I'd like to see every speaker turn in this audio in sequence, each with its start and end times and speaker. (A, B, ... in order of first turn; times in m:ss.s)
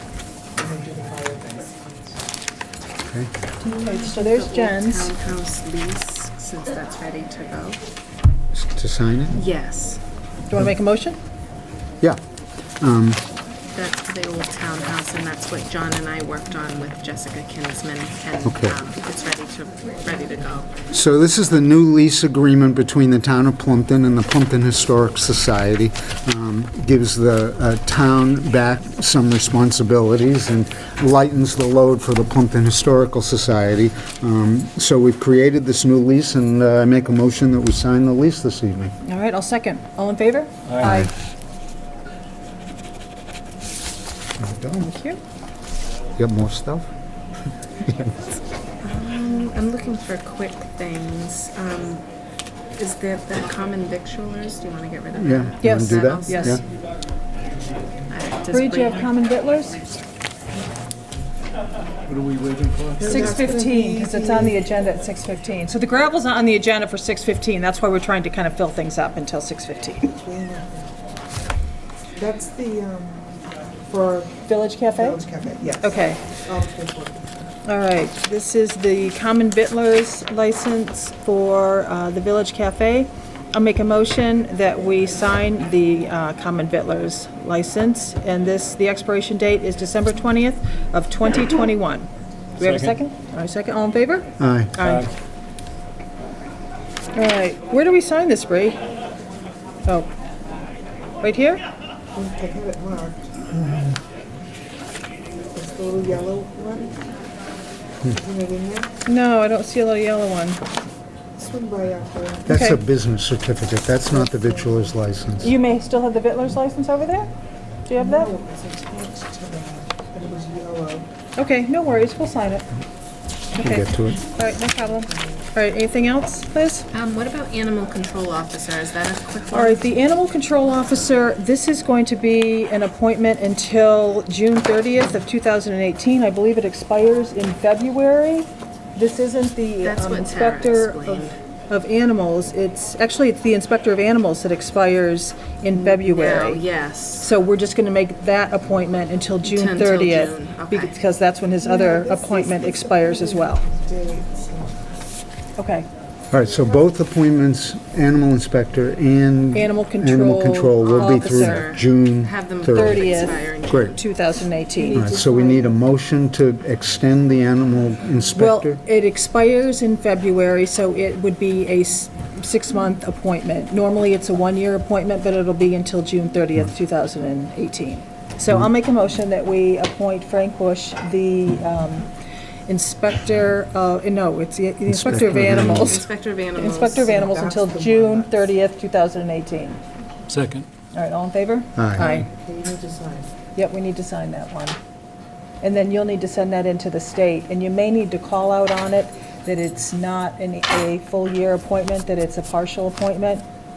0:00.6-0:02.2 A
0:03.0-0:03.3 B
0:03.6-0:07.8 C
0:03.6-0:05.1 D
0:08.5-0:09.4 B
0:09.3-0:10.0 C
0:10.5-0:11.2 D
0:12.8-0:13.2 B
0:13.7-0:20.7 C
0:18.4-0:18.8 B
0:20.9-0:38.9 B
0:39.0-0:41.1 D
0:40.8-0:41.1 B
0:44.4-0:44.9 B
0:44.8-0:45.2 D
0:46.2-0:46.9 B
0:48.8-0:52.0 C
0:52.8-0:56.6 C
0:55.1-0:56.6 B
0:55.6-0:56.6 D
0:58.1-0:59.1 C
0:58.5-0:59.8 D
1:02.0-1:03.4 E
1:03.0-1:04.5 A
1:03.0-1:10.2 D
1:10.2-1:10.9 A
1:12.2-1:17.4 A
1:14.5-1:15.2 D
1:15.8-1:16.2 D
1:17.6-1:32.1 D
1:32.6-1:35.1 D
1:32.6-1:33.0 E
1:34.4-1:34.7 B
1:34.8-1:35.1 E
1:37.1-1:38.8 D
1:41.2-1:41.6 D
1:42.1-1:43.3 A
1:45.5-1:46.9 A
1:48.1-1:48.9 A
1:49.0-1:50.6 D
1:51.4-1:52.5 A
1:52.4-1:55.5 B
1:52.5-1:52.8 D
1:54.2-1:54.9 A
1:55.4-1:57.3 D
1:57.9-1:58.3 D
1:58.0-2:01.1 A
2:01.4-2:02.7 D
2:03.5-2:04.2 B
2:03.6-2:06.9 D
2:04.6-2:05.4 A
2:06.9-2:09.8 C
2:09.5-2:26.6 D
2:19.8-2:21.4 C
2:25.7-2:27.3 C
2:27.2-2:33.6 D
2:29.4-2:30.9 C
2:31.6-2:34.8 A
2:35.6-2:35.9 D
2:36.3-2:44.0 B
2:36.4-2:36.8 A
2:39.5-2:41.7 D
2:40.8-2:44.0 C
2:42.7-2:45.0 D
2:44.7-2:45.7 A
2:44.9-2:48.8 B
2:48.3-3:02.1 D
3:02.7-3:09.8 D
3:04.9-3:06.0 B
3:05.3-3:07.1 C
3:06.9-3:08.4 A
3:10.3-3:10.7 E
3:10.9-3:12.3 D
3:11.8-3:12.1 B
3:12.0-3:13.3 A
3:13.5-3:14.8 D
3:15.6-3:23.4 D